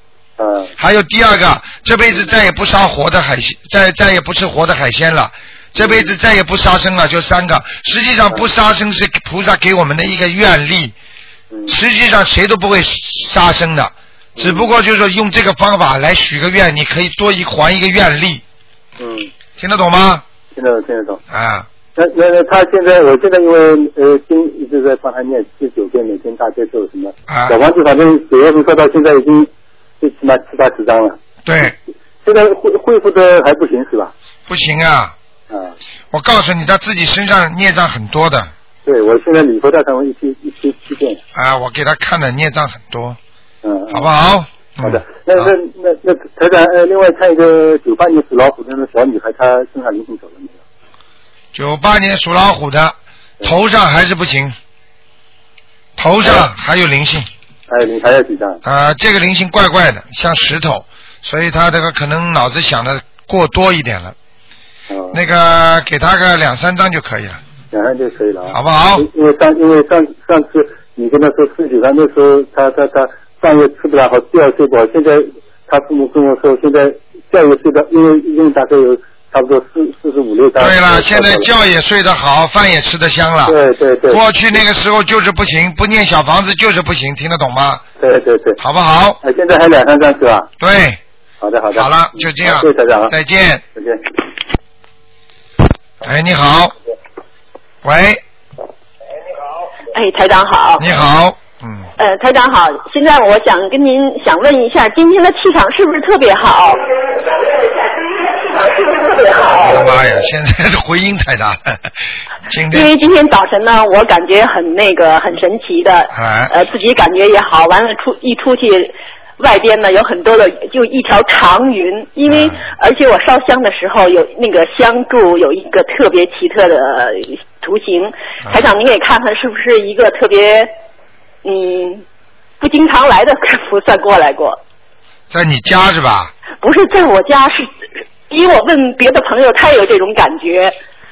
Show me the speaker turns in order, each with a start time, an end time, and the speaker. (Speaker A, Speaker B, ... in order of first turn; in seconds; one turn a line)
Speaker A: 0.4-0.7
Speaker B: 0.8-10.9
Speaker A: 5.8-6.2
Speaker B: 11.7-18.4
Speaker A: 14.4-14.7
Speaker A: 19.0-19.3
Speaker B: 19.6-20.2
Speaker A: 20.5-21.2
Speaker B: 21.3-21.7
Speaker A: 22.0-31.7
Speaker B: 27.3-27.6
Speaker B: 31.4-31.8
Speaker A: 32.2-34.1
Speaker B: 34.5-35.1
Speaker B: 36.1-38.5
Speaker A: 38.9-41.2
Speaker B: 41.3-43.2
Speaker A: 43.6-44.1
Speaker B: 43.9-45.5
Speaker A: 44.8-50.6
Speaker B: 51.5-54.6
Speaker B: 56.0-57.3
Speaker A: 57.7-58.6
Speaker B: 58.6-64.2
Speaker A: 64.9-65.2
Speaker B: 65.1-67.4
Speaker A: 67.7-81.5
Speaker B: 68.5-69.1
Speaker B: 80.6-83.6
Speaker A: 83.5-84.2
Speaker B: 84.1-87.8
Speaker A: 88.0-88.6
Speaker B: 88.6-89.2
Speaker A: 89.2-90.5
Speaker B: 90.6-91.0
Speaker A: 91.4-93.1
Speaker B: 91.7-93.6
Speaker A: 93.8-94.0
Speaker B: 96.0-96.7
Speaker B: 97.8-98.2
Speaker C: 99.9-100.9
Speaker B: 100.8-101.9
Speaker C: 102.0-106.8
Speaker C: 108.4-109.9
Speaker B: 109.6-111.9
Speaker B: 112.5-112.9
Speaker C: 112.7-130.7
Speaker B: 116.1-116.5
Speaker B: 122.3-122.6
Speaker C: 131.4-132.1
Speaker C: 132.6-134.6
Speaker B: 135.3-136.3
Speaker C: 136.6-137.7
Speaker C: 138.3-140.8